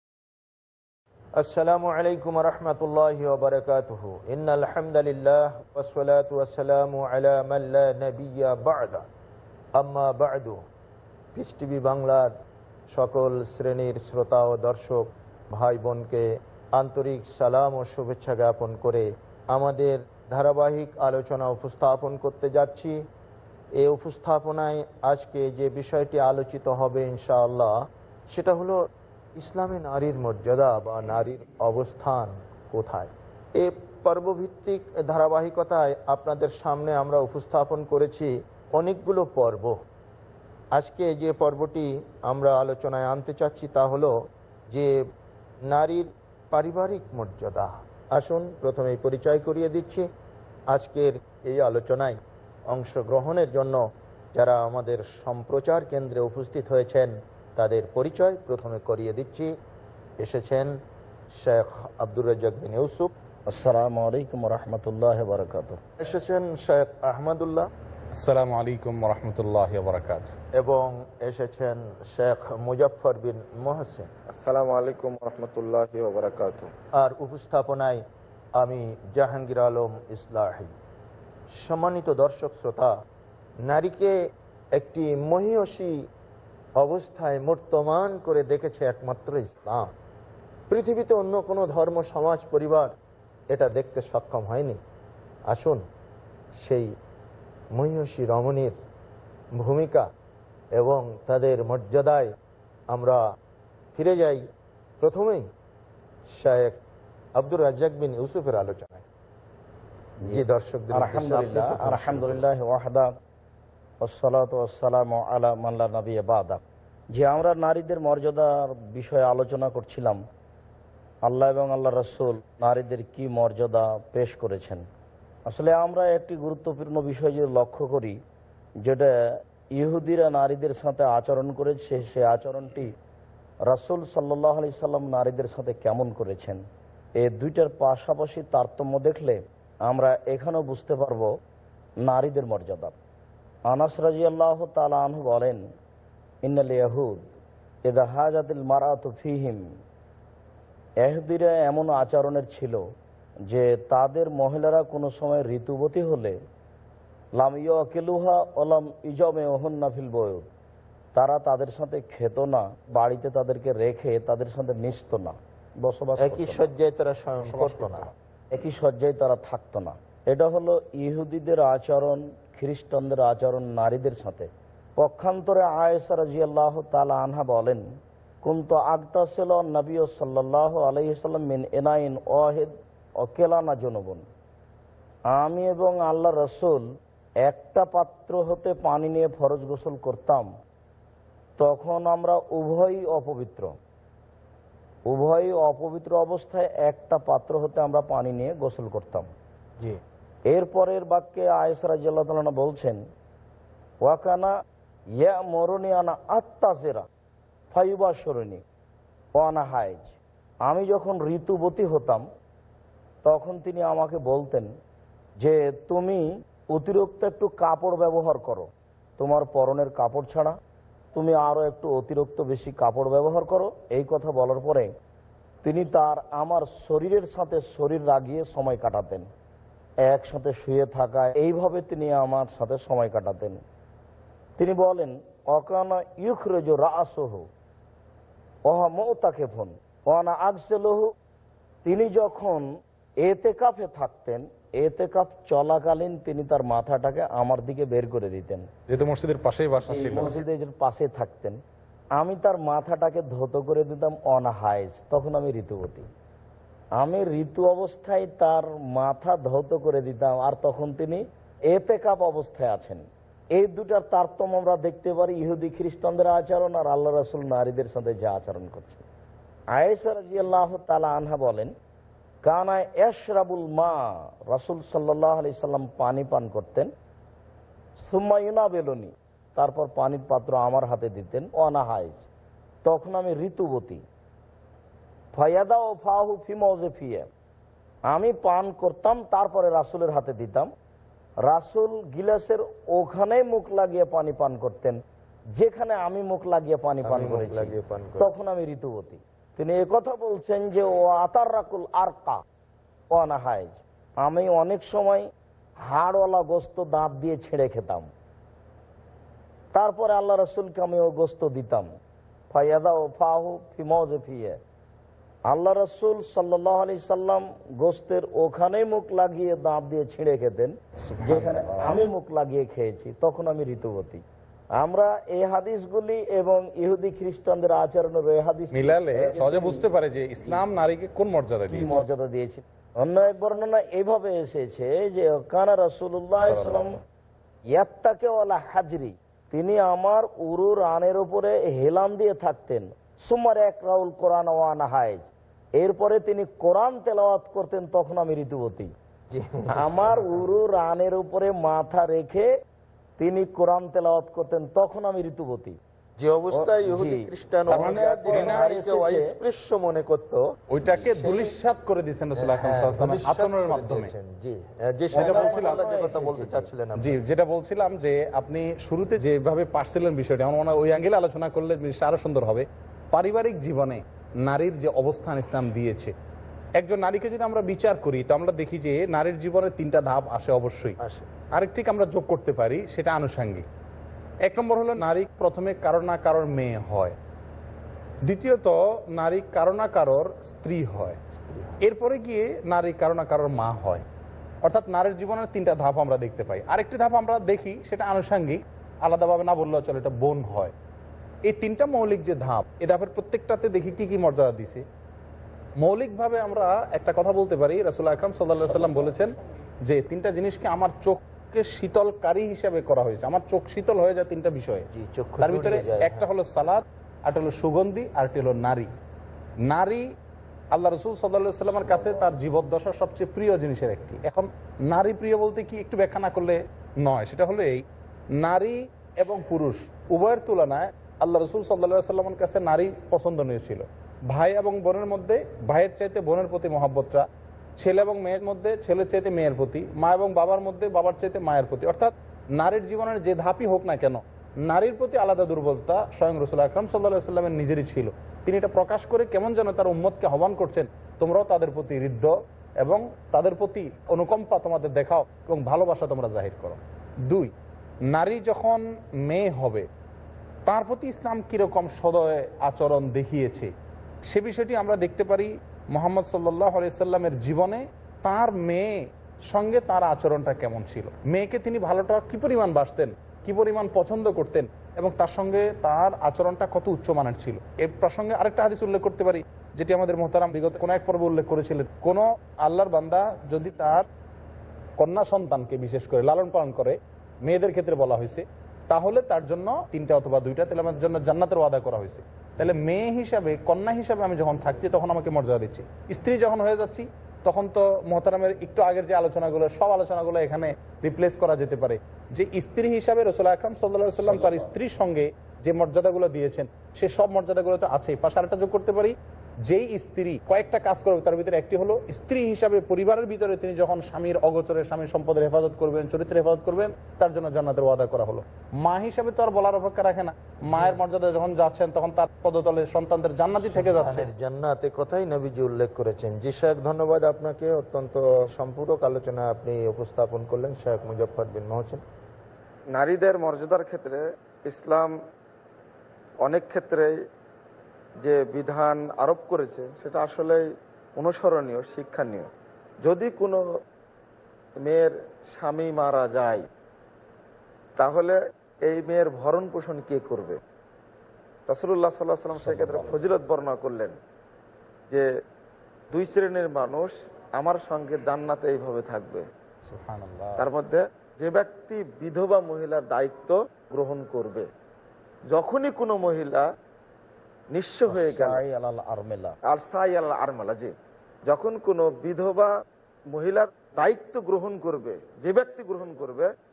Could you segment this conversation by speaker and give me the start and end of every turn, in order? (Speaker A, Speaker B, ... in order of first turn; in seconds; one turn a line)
Speaker A: 1.4-9.1
Speaker A: 9.8-10.6
Speaker A: 11.3-12.3
Speaker A: 12.9-16.3
Speaker A: 16.8-22.9
Speaker A: 23.8-27.7
Speaker A: 28.3-28.8
Speaker A: 29.4-39.8
Speaker A: 40.8-44.1
Speaker A: 44.7-45.0
Speaker A: 45.7-50.1
Speaker A: 50.7-52.2
Speaker A: 52.7-53.8
Speaker A: 54.4-59.5
Speaker A: 60.2-60.7
Speaker A: 61.4-63.1
Speaker B: 63.5-65.8
Speaker A: 66.0-67.7
Speaker C: 68.2-70.3
Speaker A: 70.6-74.1
Speaker D: 74.3-76.7
Speaker A: 77.0-78.0
Speaker A: 78.6-80.7
Speaker A: 81.6-82.9
Speaker A: 83.7-84.1
Speaker A: 84.8-85.9
Speaker A: 86.8-89.9
Speaker A: 90.7-92.9
Speaker A: 93.5-94.8
Speaker A: 95.5-95.8
Speaker A: 97.8-98.8
Speaker A: 99.6-100.1
Speaker A: 100.8-102.3
Speaker A: 102.9-103.2
Speaker A: 104.0-104.4
Speaker A: 105.0-105.4
Speaker A: 106.4-106.8
Speaker A: 107.4-109.0
Speaker B: 110.2-113.1
Speaker A: 110.3-112.4
Speaker B: 114.0-116.6
Speaker B: 117.1-120.2
Speaker B: 121.3-124.8
Speaker B: 125.5-128.2
Speaker B: 128.8-129.1
Speaker B: 129.8-132.9
Speaker B: 133.7-136.6
Speaker B: 137.2-141.3
Speaker B: 142.0-142.9
Speaker B: 143.7-145.6
Speaker B: 146.4-147.3
Speaker B: 147.9-149.7
Speaker B: 151.0-152.8
Speaker B: 153.5-156.4
Speaker B: 157.4-160.5
Speaker B: 161.1-166.6
Speaker A: 166.2-168.1
Speaker C: 167.4-168.1
Speaker B: 168.5-177.8
Speaker B: 178.4-184.3
Speaker B: 185.3-186.8
Speaker B: 187.4-190.5
Speaker B: 191.6-193.8
Speaker B: 195.1-199.3
Speaker B: 200.5-203.0
Speaker B: 204.0-204.5
Speaker B: 205.2-207.1
Speaker B: 207.7-208.6
Speaker B: 209.4-212.3
Speaker B: 213.2-214.7
Speaker B: 215.4-220.6
Speaker B: 221.1-224.9
Speaker B: 225.6-229.3
Speaker B: 230.1-233.6
Speaker B: 234.6-237.5
Speaker B: 238.7-241.1
Speaker B: 241.8-242.7
Speaker B: 243.2-248.7
Speaker C: 248.9-250.4
Speaker B: 249.8-251.6
Speaker B: 252.2-256.1
Speaker B: 257.0-269.0
Speaker B: 269.8-271.7
Speaker B: 272.4-276.9
Speaker B: 278.0-282.2
Speaker B: 282.8-284.0
Speaker B: 285.3-287.3
Speaker B: 288.1-290.7
Speaker B: 291.5-295.0
Speaker B: 295.6-302.4
Speaker A: 297.0-298.3
Speaker B: 303.1-305.3
Speaker B: 305.8-308.1
Speaker B: 309.7-311.9
Speaker B: 312.5-314.6
Speaker B: 315.5-324.2
Speaker C: 321.0-322.0
Speaker B: 324.8-329.9
Speaker C: 328.8-332.0
Speaker B: 331.7-336.9
Speaker C: 336.4-336.9
Speaker B: 337.8-348.9
Speaker A: 349.3-350.5
Speaker B: 349.8-352.5
Speaker B: 353.2-355.8
Speaker A: 356.2-361.5
Speaker B: 356.5-359.3
Speaker C: 357.7-358.6
Speaker C: 360.7-364.1
Speaker A: 362.4-367.2
Speaker B: 365.1-366.7
Speaker C: 365.1-365.8
Speaker C: 367.0-376.1
Speaker C: 376.8-381.0
Speaker A: 381.0-381.3
Speaker C: 381.5-383.6
Speaker C: 384.4-387.1
Speaker C: 388.2-391.2
Speaker A: 391.3-391.8
Speaker C: 391.8-394.0
Speaker C: 394.6-400.7
Speaker C: 401.4-404.8
Speaker C: 405.8-414.9
Speaker A: 408.6-409.3
Speaker A: 414.9-416.3
Speaker C: 415.4-418.9
Speaker C: 419.7-420.1
Speaker C: 420.7-427.8
Speaker A: 421.6-422.3
Speaker C: 428.4-437.2
Speaker C: 437.8-457.5
Speaker C: 458.1-459.9
Speaker C: 460.7-463.7
Speaker C: 464.3-484.1
Speaker C: 485.0-509.1
Speaker B: 504.2-504.7
Speaker C: 509.7-524.3
Speaker A: 520.7-521.0
Speaker A: 523.7-532.0
Speaker D: 533.0-535.1
Speaker D: 536.4-537.1
Speaker D: 538.2-540.6
Speaker D: 541.2-542.5
Speaker D: 543.0-543.6
Speaker D: 544.8-546.7
Speaker D: 548.0-550.6
Speaker D: 551.7-554.2
Speaker B: 552.5-553.3
Speaker D: 556.1-559.5
Speaker C: 559.9-560.6
Speaker D: 560.6-564.7
Speaker D: 565.5-566.7
Speaker D: 567.7-568.6
Speaker B: 568.1-569.5
Speaker D: 569.7-570.9
Speaker D: 571.5-572.7
Speaker D: 573.3-576.5